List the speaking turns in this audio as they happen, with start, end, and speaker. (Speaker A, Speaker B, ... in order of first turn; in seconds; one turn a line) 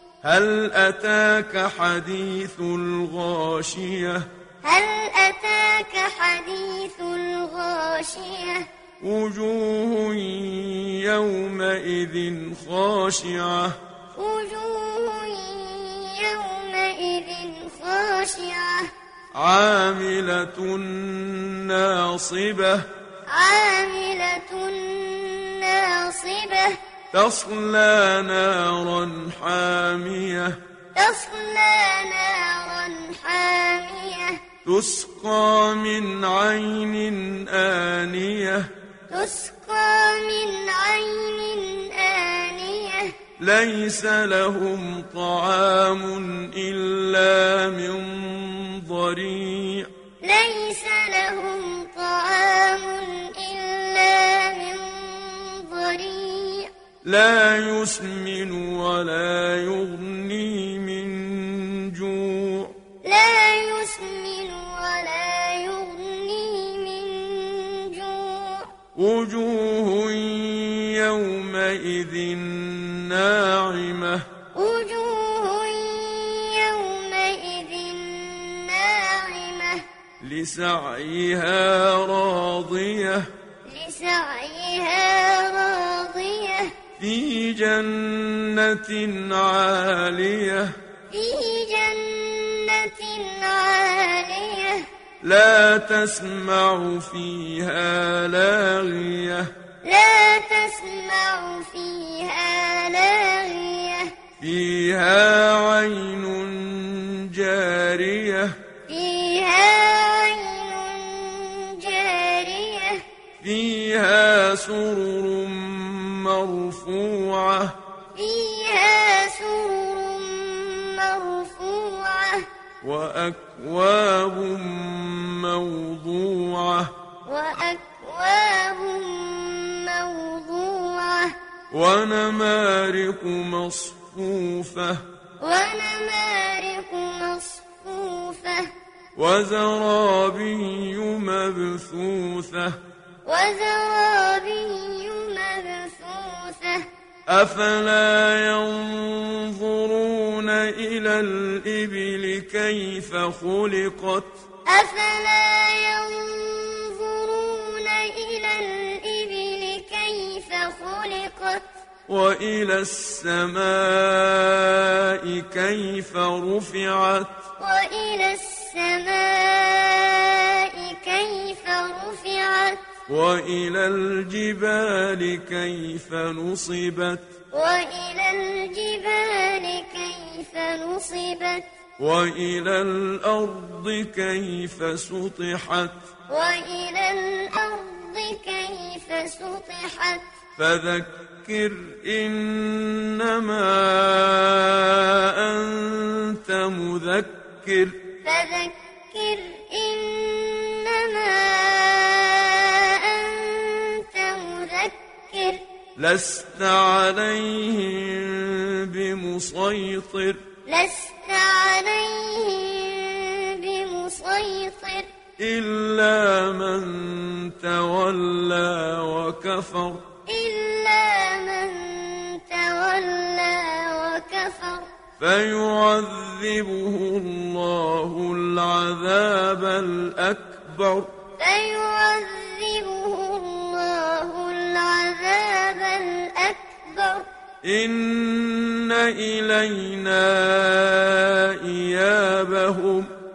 Speaker A: 0.2-4.3
Speaker B: 4.6-8.7
Speaker A: 9.0-13.8
Speaker B: 14.1-18.9
Speaker A: 19.3-22.9
Speaker B: 23.3-26.8
Speaker A: 27.1-30.6
Speaker B: 30.9-34.4
Speaker A: 34.6-38.7
Speaker B: 39.1-43.2
Speaker A: 43.4-49.9
Speaker B: 50.2-56.7
Speaker A: 57.0-62.8
Speaker B: 63.0-68.7
Speaker A: 68.9-74.2
Speaker B: 74.5-79.8
Speaker A: 80.2-83.3
Speaker B: 83.6-86.8
Speaker A: 87.0-90.8
Speaker B: 91.1-94.9
Speaker A: 95.2-99.5
Speaker B: 99.8-104.2
Speaker A: 104.4-108.6
Speaker B: 108.9-113.0
Speaker A: 113.4-117.8
Speaker B: 118.1-122.5
Speaker A: 122.8-126.9
Speaker B: 127.3-131.4
Speaker A: 131.7-135.0
Speaker B: 135.4-138.7
Speaker A: 139.1-142.8
Speaker B: 143.2-146.9
Speaker A: 147.3-154.4
Speaker B: 154.7-161.7
Speaker A: 162.1-167.4
Speaker B: 167.6-172.8
Speaker A: 173.1-177.3
Speaker B: 177.5-181.7
Speaker A: 182.0-186.0
Speaker B: 186.3-190.3
Speaker A: 190.6-198.0
Speaker B: 198.2-205.6
Speaker A: 205.9-210.4
Speaker B: 210.7-215.1
Speaker A: 215.4-220.1
Speaker B: 220.3-224.9
Speaker A: 225.2-231.1
Speaker B: 231.4-237.3
Speaker A: 237.6-243.1